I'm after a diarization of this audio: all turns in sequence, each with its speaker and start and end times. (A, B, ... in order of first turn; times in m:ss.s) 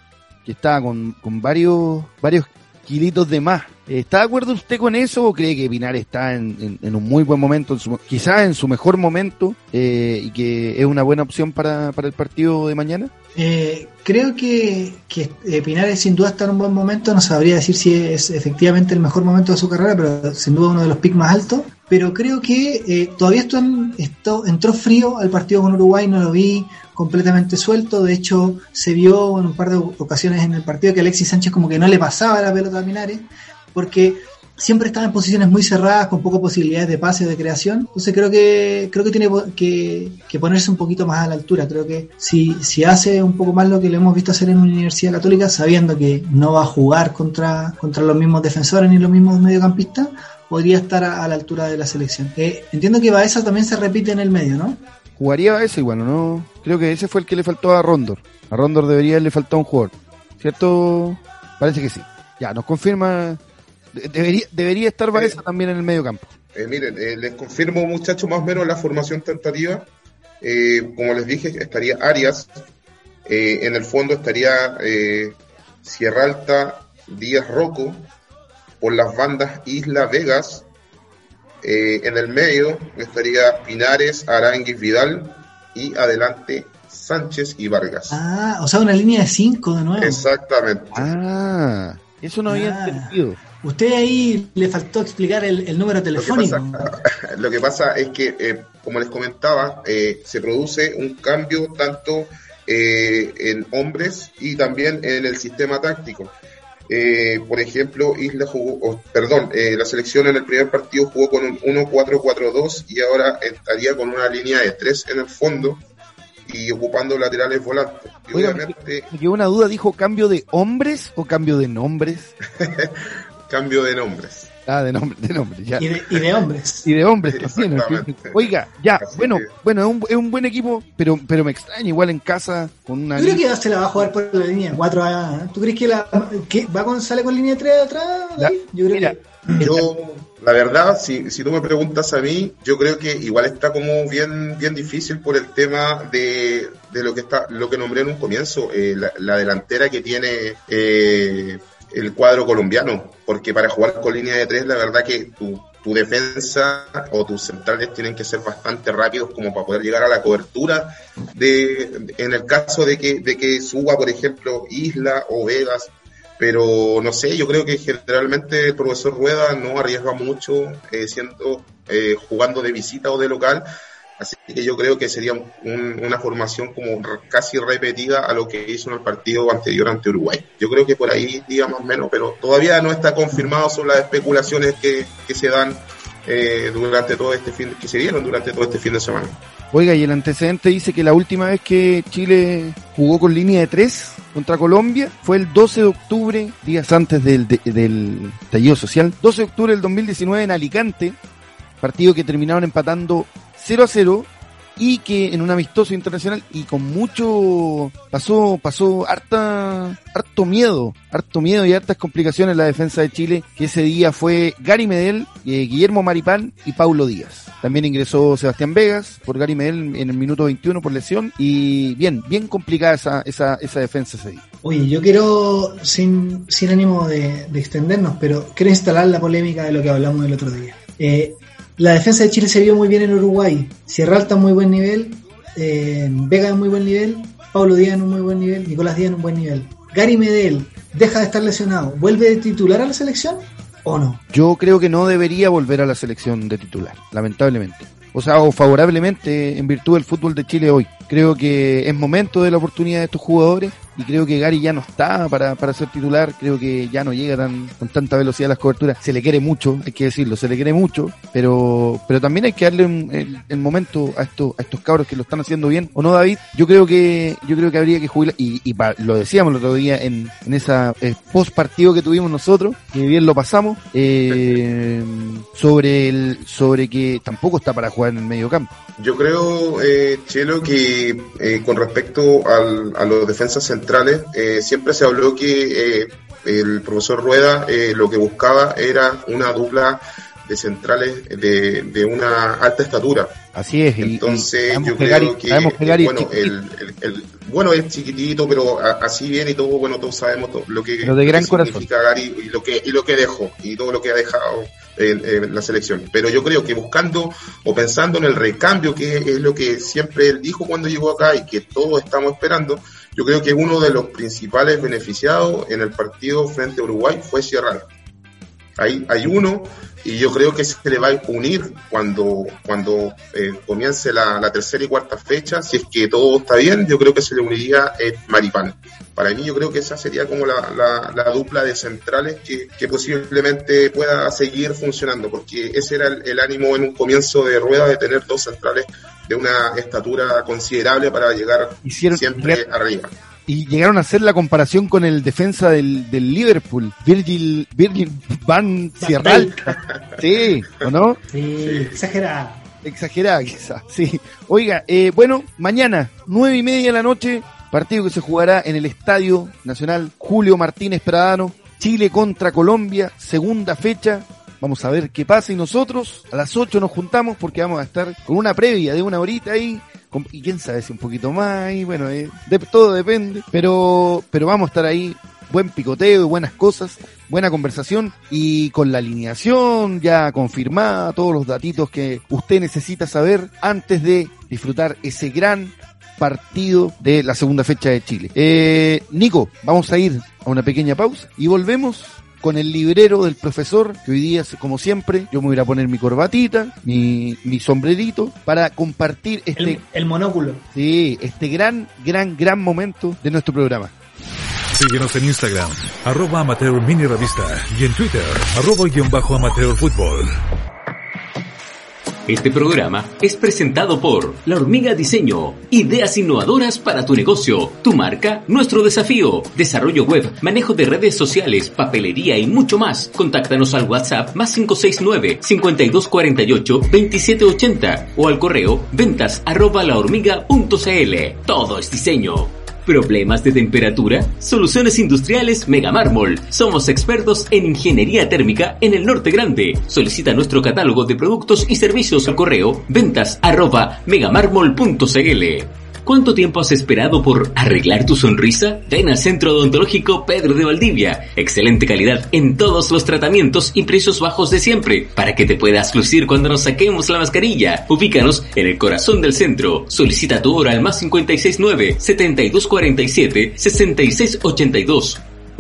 0:00.4-0:13.1 A
0:13.4-0:54.8 B
0:55.2-1:03.4 A
1:03.9-1:06.3 A
1:06.6-1:09.9 C
1:10.4-1:12.6 C
1:13.2-1:18.1 C
1:18.8-1:20.6 C
1:21.6-1:28.2 C
1:28.1-1:30.3 B
1:30.0-1:31.1 C
1:30.9-1:33.4 A
1:32.5-1:36.9 B
1:36.2-1:46.4 C
1:46.9-1:55.8 C
1:56.5-1:59.1 C
1:58.3-2:02.3 A
2:02.6-2:04.5 C
2:04.6-2:06.2 A
2:05.8-2:06.9 B
2:06.8-2:13.4 A
2:07.3-2:09.5 C
2:13.2-2:19.7 B
2:18.4-2:19.9 A
2:19.5-2:53.6 C
2:54.2-3:09.4 C
3:09.7-3:21.2 A
3:21.8-3:44.4 A
3:44.6-4:04.2 B
4:04.3-4:38.7 A
4:34.3-4:34.6 C
4:39.0-4:53.4 C
4:53.5-4:56.5 A
4:54.0-5:17.9 C
5:01.0-5:01.9 A
5:18.8-5:43.1 C
5:41.8-5:42.6 A
5:43.5-5:51.2 A
5:49.0-5:49.7 B
5:51.3-5:52.6 B
5:51.6-5:51.9 C
5:52.8-6:39.8 A
6:39.6-6:40.6 B
6:40.7-6:43.9 A
6:44.7-6:50.3 D
6:52.3-7:45.2 E